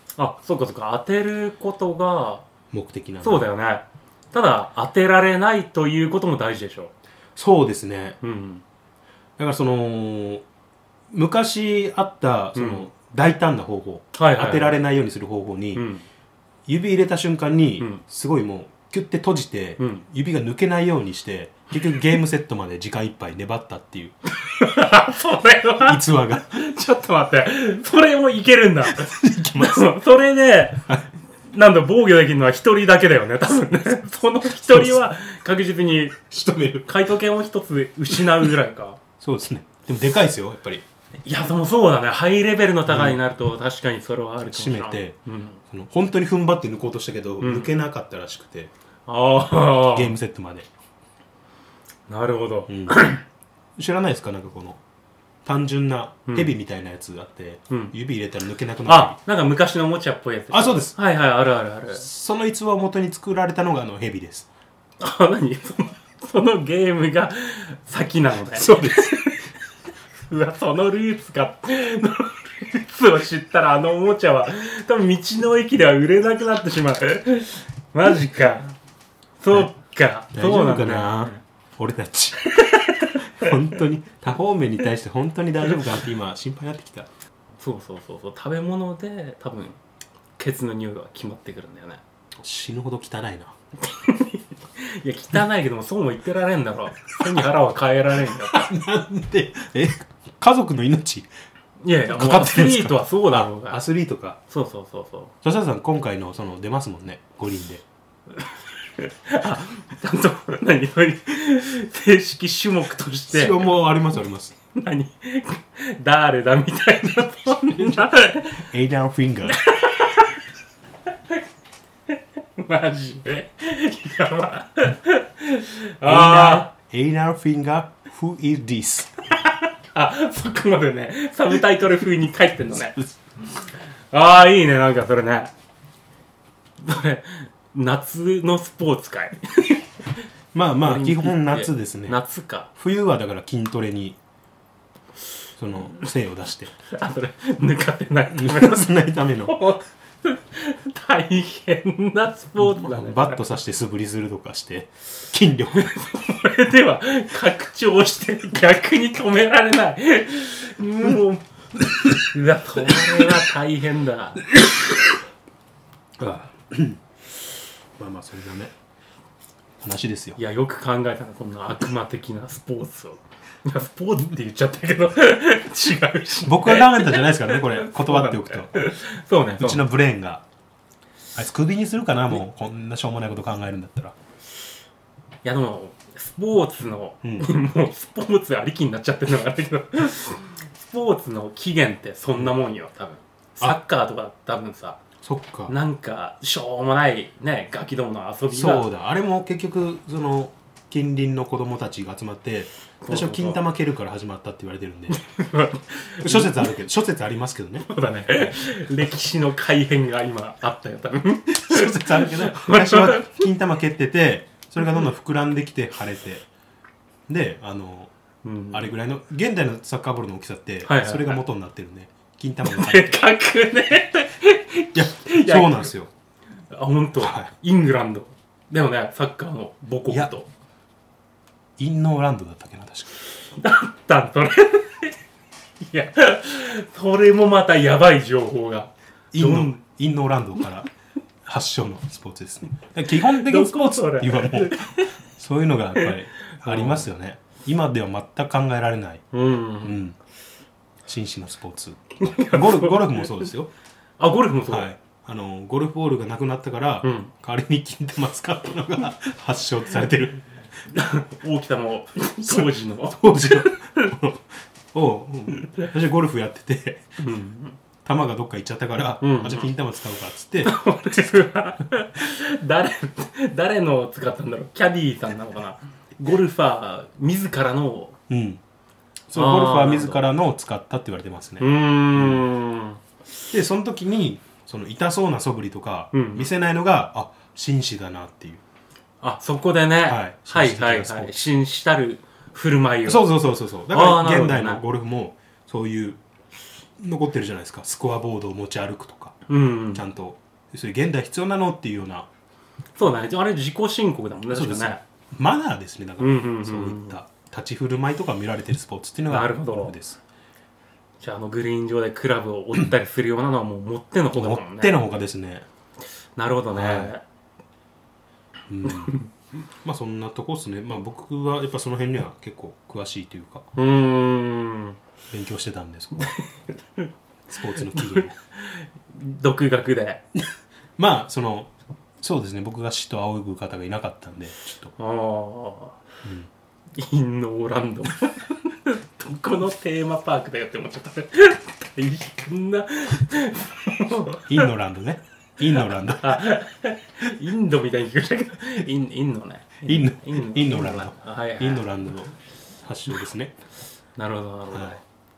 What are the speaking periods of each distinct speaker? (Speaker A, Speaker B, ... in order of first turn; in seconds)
Speaker A: 0.2-2.5, 3.2-6.9, 8.2-8.6, 12.5-12.9, 14.1-14.8, 15.7-16.0, 19.8-20.1, 24.3-30.8, 31.5-36.2, 36.8-39.0, 41.2-45.6, 47.4-47.7, 49.1-50.1, 52.1-53.2, 56.3-56.5, 58.9-62.0, 65.0-69.5, 70.2-78.8, 79.4-81.4, 82.5-83.5, 87.6-89.8, 90.4-92.0, 93.8-98.7, 101.8-103.8, 104.5-105.3, 109.0-113.7, 114.7-118.6, 119.5-120.4, 122.1-126.7, 129.4-133.0, 134.1-135.5, 136.8-140.2, 140.8-142.7, 146.8-148.9, 149.4-153.4, 155.8-164.4, 170.4-179.8, 185.4-195.0, 195.7-198.9, 203.0-203.6, 205.1-206.7, 207.9-213.5, 218.4-218.9, 220.8-221.4, 222.6-225.9, 226.7-230.5, 233.6-235.2, 235.8-239.8, 243.1-245.1, 245.9-247.1, 249.3-250.0, 252.2-253.5, 254.2-254.9, 257.0-257.3, 260.9-264.1, 267.2-267.8, 269.2-269.7, 270.6-278.1, 279.3-280.2, 281.6-283.0, 286.1-286.5, 289.2-293.3, 293.9-294.8, 299.5-300.0, 302.9-305.0, 306.2-307.2, 309.3-309.9, 311.2-315.0, 316.4-317.2, 318.8-319.3, 323.8-325.0, 327.8-330.2, 335.0-335.9, 336.9-344.7, 345.8-351.9, 354.1-355.0
Speaker B: 2.7-3.5, 7.3-8.2, 9.4-10.4, 11.1-15.8, 16.6-24.1, 25.8-26.6, 28.9-29.9, 34.6-35.0, 36.3-36.9, 39.2-40.8, 42.9-43.2, 44.5-45.1, 45.7-48.7, 49.8-50.7, 52.7-53.1, 53.8-54.8, 55.4-59.2, 60.5-60.9, 61.9-64.5, 68.5-69.2, 80.3-82.6, 83.2-87.1, 92.4-93.5, 98.2-101.3, 102.1-104.4, 105.4-107.8, 113.3-114.5, 117.8-119.6, 126.0-129.2, 140.5-142.2, 142.7-144.2, 145.6-146.7, 148.3-149.6, 152.6-155.9, 166.2-167.0, 168.0-168.7, 169.8-170.4, 176.4-178.8, 179.6-180.4, 181.3-184.2, 187.2-187.5, 195.2-195.7, 198.5-205.2, 206.2-208.5, 211.6-216.5, 217.3-218.1, 218.7-223.2, 224.9-226.1, 227.2-227.5, 230.1-230.3, 231.8-233.1, 239.3-240.9, 241.4-249.2, 249.8-250.2, 251.0-253.7, 254.7-260.4, 262.4-267.2, 268.0-270.8, 278.3-278.6, 279.3-282.5, 283.5-288.6, 290.1-291.4, 293.0-296.2, 297.0-302.3, 304.5-310.2, 314.3-315.6, 316.7-317.1, 318.7-319.2, 319.8-323.7, 325.3-326.3, 327.5-328.4, 331.0-334.9, 336.2-336.5, 344.5-346.5, 349.9-353.6, 354.7-355.0